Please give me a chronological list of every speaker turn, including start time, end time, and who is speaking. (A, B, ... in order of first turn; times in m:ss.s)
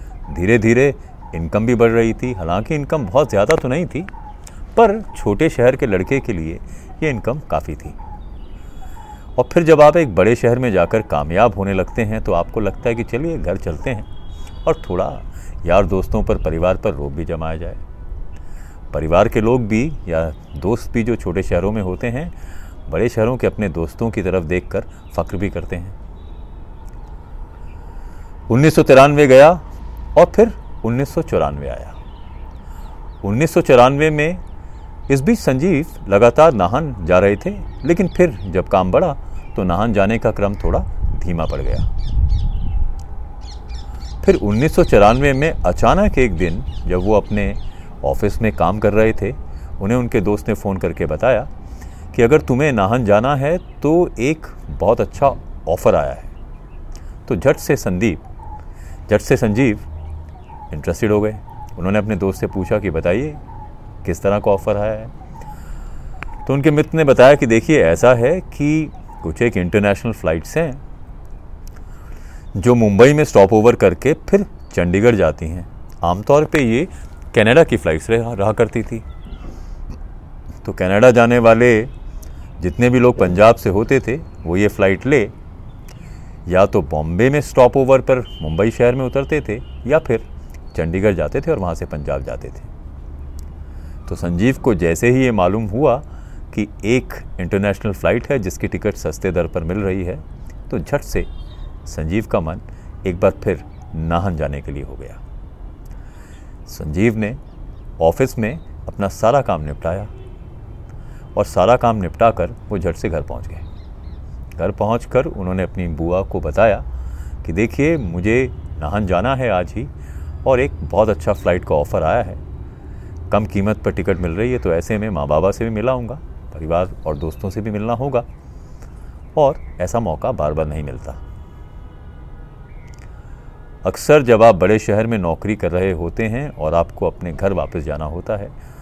0:00.3-0:04.1 A
0:04.7-0:08.0 A
0:09.4-0:14.1 A
0:14.6-0:17.8 A
0:18.9-0:22.3 A
0:22.9-0:26.0 A
0:28.5-0:29.6 A
0:30.1-0:32.0 A
0:33.2-0:34.4 A
0:35.1-0:41.9 A
0:44.2-0:51.5 A
0:52.1-0:56.3 A
0:57.2-0:58.2 A
0:59.1-0:59.9 A
1:00.7-1:03.4 A
1:04.0-1:05.1 A
1:06.4-1:10.8 A
1:12.5-1:19.0 A
1:20.6-1:21.9 A
1:22.6-1:25.3 A
1:26.4-1:32.7 A
1:34.0-1:41.3 A
1:41.8-1:45.2 A
1:46.7-1:47.4 A
1:48.0-1:50.1 A
1:51.3-1:53.6 A
1:54.5-1:56.8 A
1:57.4-1:59.9 A
2:00.4-2:02.4 A
2:03.3-2:08.2 A
2:09.4-2:11.2 A
2:13.8-2:18.5 A